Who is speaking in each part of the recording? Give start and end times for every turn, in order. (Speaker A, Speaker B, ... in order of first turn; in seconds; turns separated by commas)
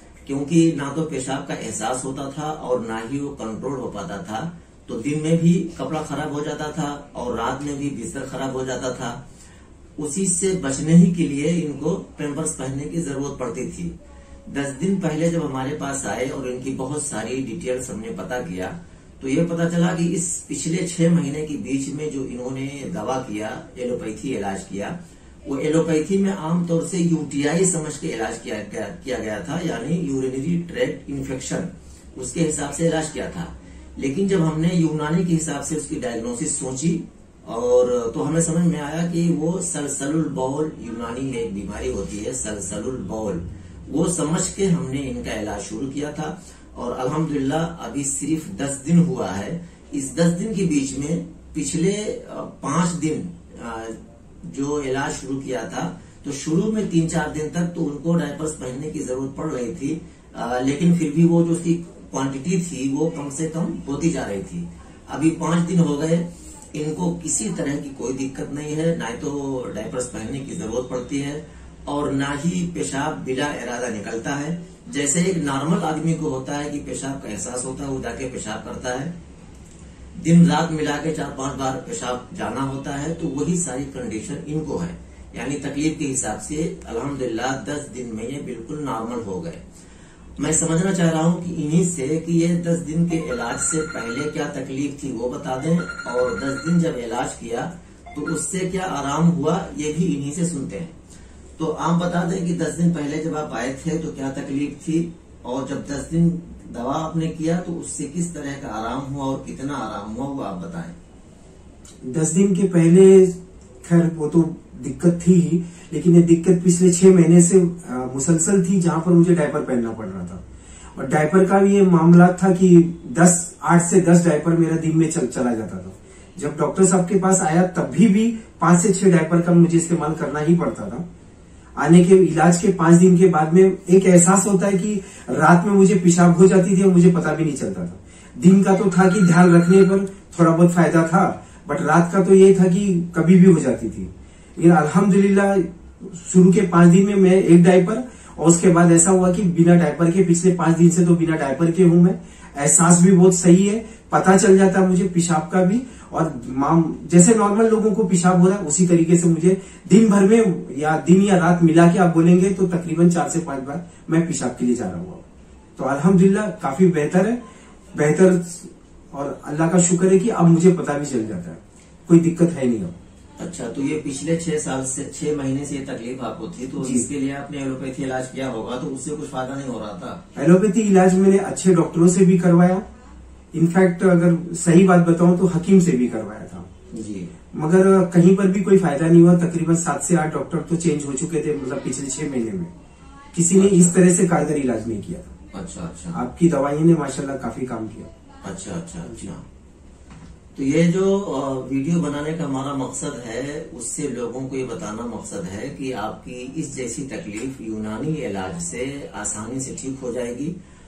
Speaker A: 0.3-9.2, Speaker A: 10.0-13.9, Speaker A: 14.5-79.1, Speaker A: 80.2-89.6, Speaker A: 90.4-101.0, Speaker A: 101.6-111.0, Speaker B: 112.0-120.4, Speaker B: 121.0-131.0, Speaker B: 131.8-165.2, Speaker B: 165.8-167.4, Speaker B: 167.9-172.9, Speaker A: 173.4-180.2, Speaker B: 176.8-177.1, Speaker B: 180.3-182.8, Speaker B: 183.5-186.7, Speaker A: 186.9-187.3, Speaker B: 187.5-192.7, Speaker B: 193.3-195.3, Speaker A: 193.5-194.0, Speaker A: 195.5-196.2, Speaker B: 196.1-198.1, Speaker A: 198.4-199.4, Speaker B: 199.1-199.3, Speaker A: 200.6-210.5